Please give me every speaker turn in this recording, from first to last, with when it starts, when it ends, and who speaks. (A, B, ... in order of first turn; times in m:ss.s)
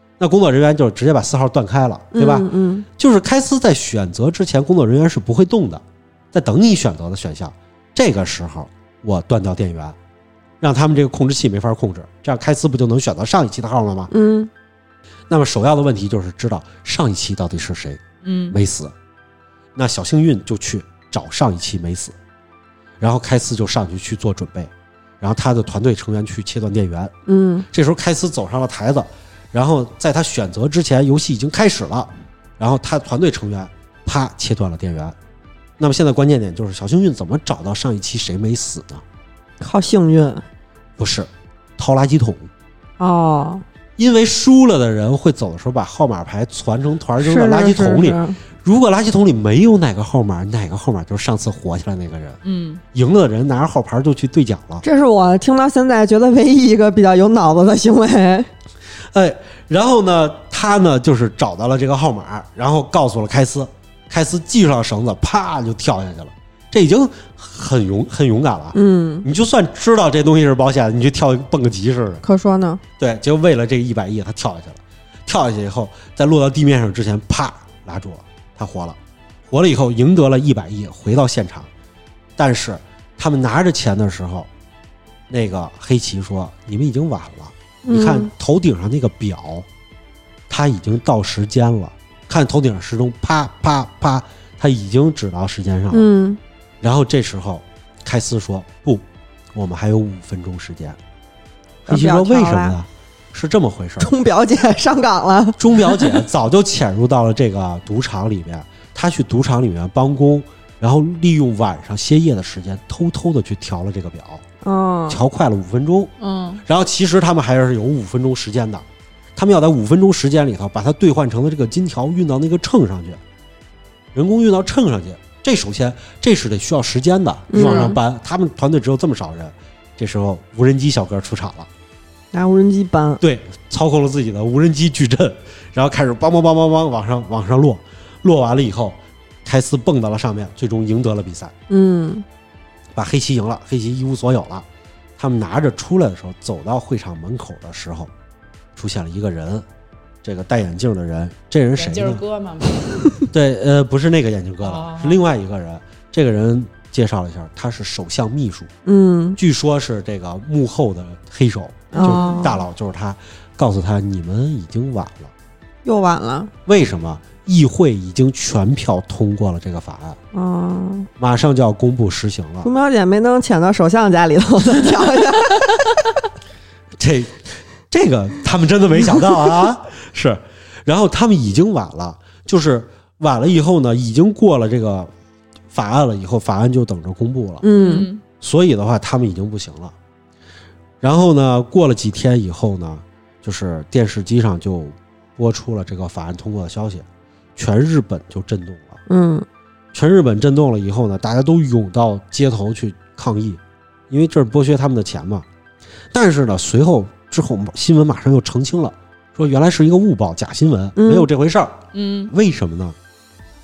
0:00.2-0:10.0 A
0:02.1-0:02.8 B
0:10.6-0:14.1 A
0:14.1-0:14.5 B
0:15.3-0:18.9 A
0:18.2-0:18.6 C
0:19.8-0:22.2 A
0:23.0-0:27.1 A
0:27.3-0:27.7 B
0:27.7-0:35.1 A
0:35.8-0:39.0 A
0:39.6-0:40.4 B
0:41.0-0:42.5 A
0:43.0-0:43.6 B
0:44.0-0:52.4 A
0:47.2-0:48.4 B
0:52.4-0:52.8 C
0:52.9-0:54.8 A
0:54.8-0:58.5 B
0:59.1-1:12.2 A
1:08.7-1:09.3 B
1:12.2-1:12.8 B
1:13.0-1:21.7 A
1:22.4-1:24.5 A
1:25.3-1:29.6 A
1:27.8-1:28.3 B
1:30.5-1:36.1 A
1:35.9-1:36.4 B
1:36.8-1:39.0 A
1:39.6-1:41.0 A
1:41.9-1:42.8 B
1:41.9-1:44.1 A
1:44.0-1:46.2 B
1:45.6-1:54.4 A
1:54.6-1:55.2 B
1:55.1-1:56.1 A
1:56.2-1:56.6 C
1:56.6-1:58.8 A
1:59.4-2:03.2 A
2:04.1-2:11.7 A
2:07.5-2:08.0 B
2:07.5-2:08.0 C
2:12.3-2:13.2 B
2:13.2-2:21.5 A
2:21.7-2:22.2 B
2:22.9-2:24.6 A
2:25.2-2:28.1 A
2:28.8-2:29.6 A
2:30.2-2:32.2 A
2:31.8-2:33.2 C
2:33.3-2:38.7 A
2:34.6-2:35.2 C
2:38.8-2:39.4 B
2:39.4-2:45.3 A
2:41.9-2:42.6 B
2:41.9-2:42.6 C
2:45.8-2:46.5 B
2:46.6-2:50.2 A
2:50.3-2:51.1 B
2:51.2-2:52.7 A
2:52.6-2:56.0 B
2:57.0-3:05.1 A
3:05.7-3:07.7 A
3:07.6-3:08.1 B
3:07.7-3:08.2 C
3:08.4-3:09.9 A
3:11.0-3:17.0 A
3:17.6-3:19.0 A
3:19.1-3:19.4 B
3:19.9-3:25.4 A
3:26.1-3:31.8 A
3:31.0-3:31.3 B
3:31.9-3:32.3 C
3:32.3-3:33.0 A